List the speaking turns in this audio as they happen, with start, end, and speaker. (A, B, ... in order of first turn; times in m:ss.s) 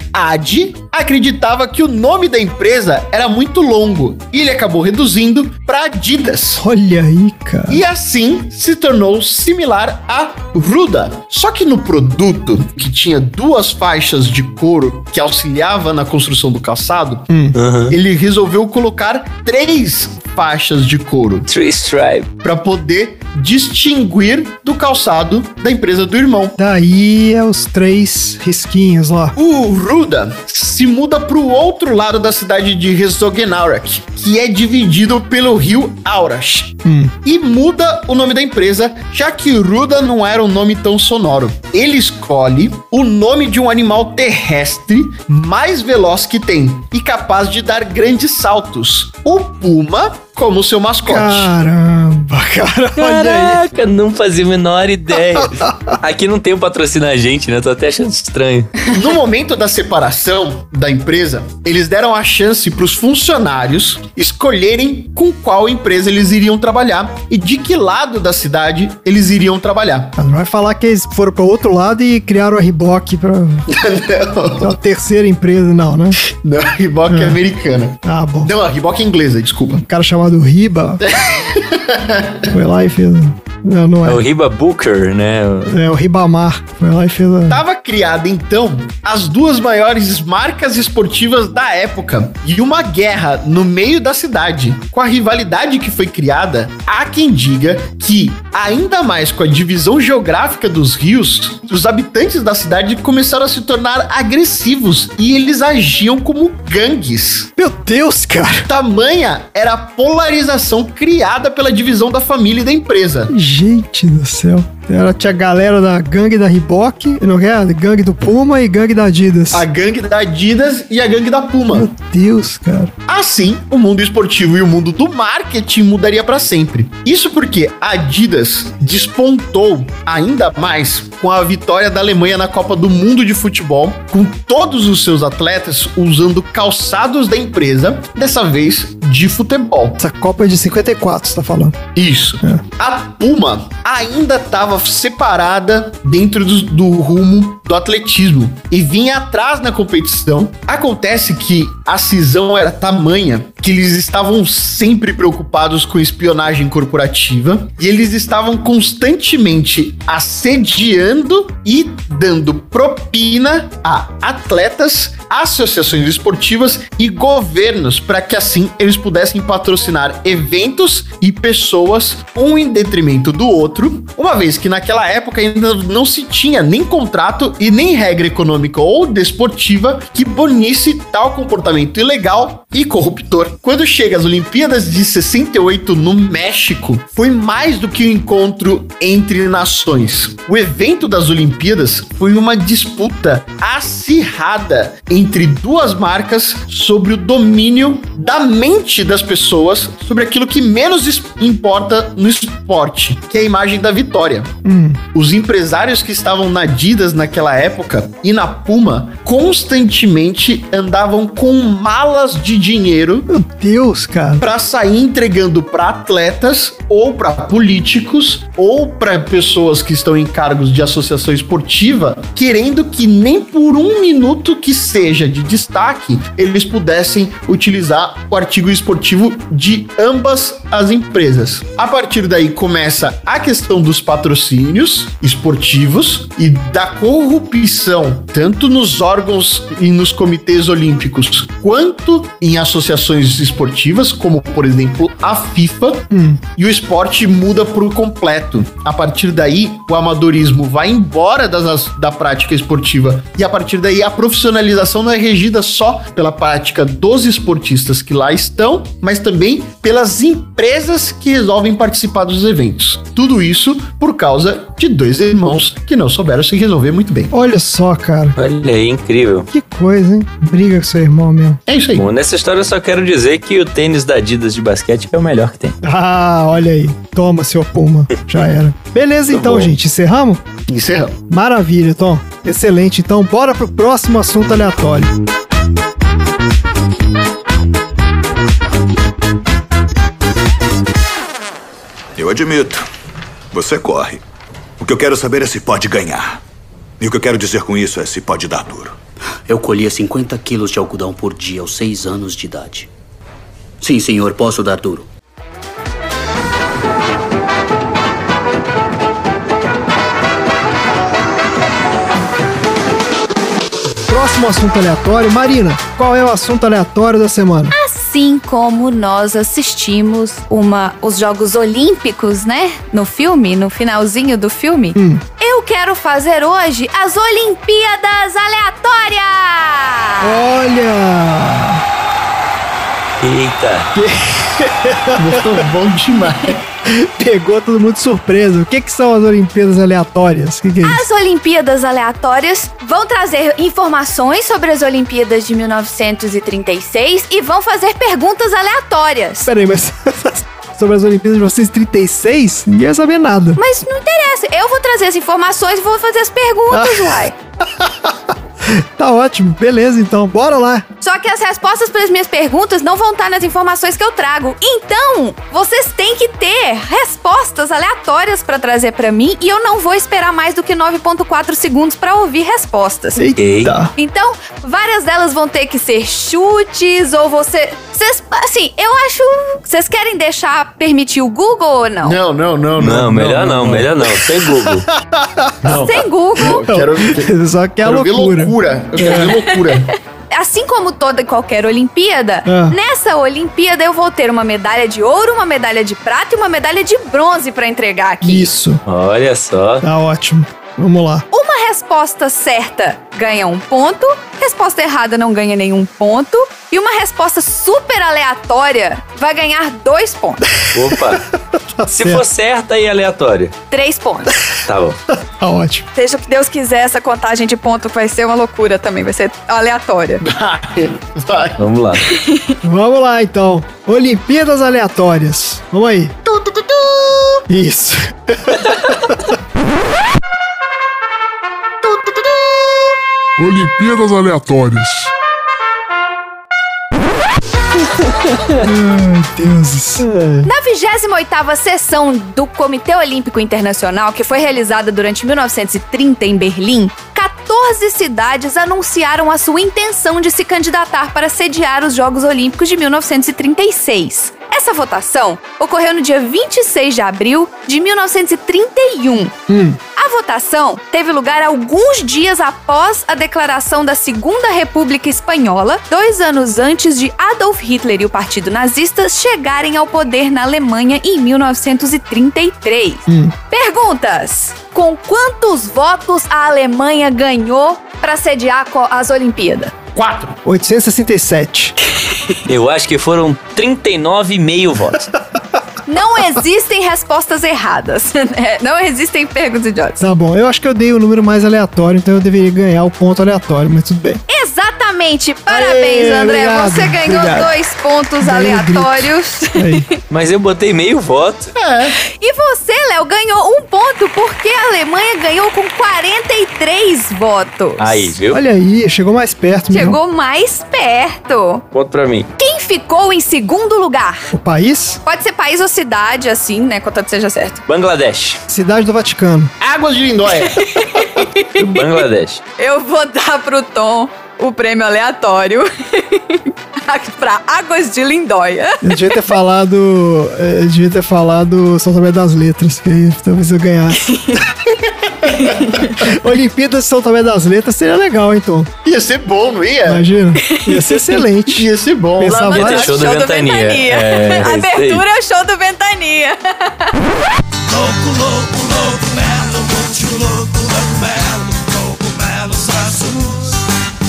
0:00.1-0:06.6 A
0:06.6-0:07.8 B
0:07.7-0:17.3 A
0:17.3-0:17.6 B
0:17.6-0:18.0 C
0:17.9-0:21.5 A
0:21.5-0:22.3 C
0:22.4-0:26.6 A
0:26.6-0:29.4 B
0:29.4-0:51.5 A
0:36.8-0:37.1 B
0:51.1-0:53.6 B
0:53.0-0:58.7 C
0:55.4-0:55.9 B
0:58.9-1:10.2 A
1:10.2-1:13.7 B
1:13.7-1:14.7 A
1:14.6-1:16.2 B
1:16.2-1:19.8 A
1:17.1-1:17.4 B
1:18.0-1:18.5 B
1:19.8-1:21.1 B
1:21.0-1:22.5 A
1:22.5-1:24.2 B
1:24.0-1:25.8 C
1:25.7-1:27.6 B
1:27.5-1:47.5 A
1:47.6-1:48.7 B
1:48.7-1:53.3 A
1:53.3-1:59.6 B
1:59.5-2:01.9 A
2:01.7-2:02.9 B
2:03.1-2:20.0 A
2:20.0-2:21.8 B
2:22.0-3:24.5 A
3:24.6-3:25.0 B
3:25.1-3:33.3 A
3:33.3-3:34.4 B
3:34.4-4:27.3 A
4:06.1-4:06.4 B
4:27.3-4:28.4 B
4:28.4-4:29.5 C
4:29.5-4:31.6 B
4:31.7-4:32.0 A
4:32.0-4:35.8 C
4:35.8-4:40.4 B
4:39.3-4:39.7 C
4:40.7-4:41.2 A
4:41.3-4:45.1 B
4:52.2-4:52.9 D
4:53.5-4:54.2 D
4:54.8-4:56.4 D
4:57.0-4:59.0 D
4:59.5-5:02.9 E
5:03.8-5:05.1 E
5:14.1-5:17.7 B
5:17.7-5:30.4 F
5:25.0-5:25.2 B
5:30.2-5:31.8 B
5:33.2-5:33.9 C
5:34.0-5:35.6 B
5:35.1-5:36.7 A
5:36.9-5:41.1 B
5:40.8-5:49.5 F
5:49.4-5:53.6 B
5:53.6-5:57.4 F
5:56.7-6:00.9 B
6:01.0-6:13.2 F
6:13.2-6:13.9 B
6:13.4-6:13.8 C
6:14.0-6:22.2 F
6:22.0-6:23.9 A
6:22.8-6:24.9 C
6:24.6-6:25.8 B
6:25.6-6:30.0 A
6:25.8-6:26.6 F
6:26.4-6:29.4 B
6:30.3-6:38.5 F
6:32.5-6:32.8 B
6:38.2-6:38.8 B
6:38.9-6:39.8 C
6:39.8-6:41.3 B
6:41.3-6:50.5 F
6:50.7-6:51.3 C
6:51.5-6:52.2 B
6:51.9-6:53.5 C
6:53.7-6:54.4 F
6:54.6-6:55.0 C
6:55.1-6:55.9 B
6:56.0-7:00.2 F
7:00.2-7:01.6 A
7:01.6-7:02.0 C
7:02.0-7:02.6 F
7:02.6-7:06.2 B
7:06.3-7:07.4 A
7:07.5-7:09.3 B
7:12.0-7:12.4 A
7:13.4-7:15.1 G
7:18.6-7:20.5 B
7:20.4-7:39.4 F
7:39.5-7:39.8 B
7:40.0-7:59.7 F
7:53.1-7:53.4 B
8:00.0-8:00.4 A
8:00.4-8:01.8 B
8:02.5-8:05.1 C
8:05.9-8:10.0 F
8:10.0-8:14.2 B
8:14.3-8:19.9 F
8:15.5-8:17.5 B
8:18.2-8:19.9 B
8:20.1-8:21.5 C
8:21.6-8:22.0 A
8:22.1-8:28.2 F
8:27.8-8:28.4 C
8:28.3-8:30.0 B
8:29.7-8:31.6 F
8:31.7-8:32.3 C
8:32.4-8:34.3 F
8:34.3-8:35.0 B
8:35.0-8:37.6 F
8:37.7-8:38.4 C
8:38.5-8:39.5 B
8:39.6-8:41.0 A
8:40.5-8:41.9 F
8:41.6-8:42.4 C
8:42.6-8:49.1 F
8:48.8-8:54.2 B
8:54.1-8:54.5 F
8:55.4-8:55.9 F
8:55.8-8:58.7 B
8:58.8-9:00.0 A
8:59.9-9:02.9 B
9:00.5-9:01.2 F
9:01.5-9:02.9 A
9:02.2-9:07.0 F
9:02.4-9:05.0 C
9:07.7-9:13.6 G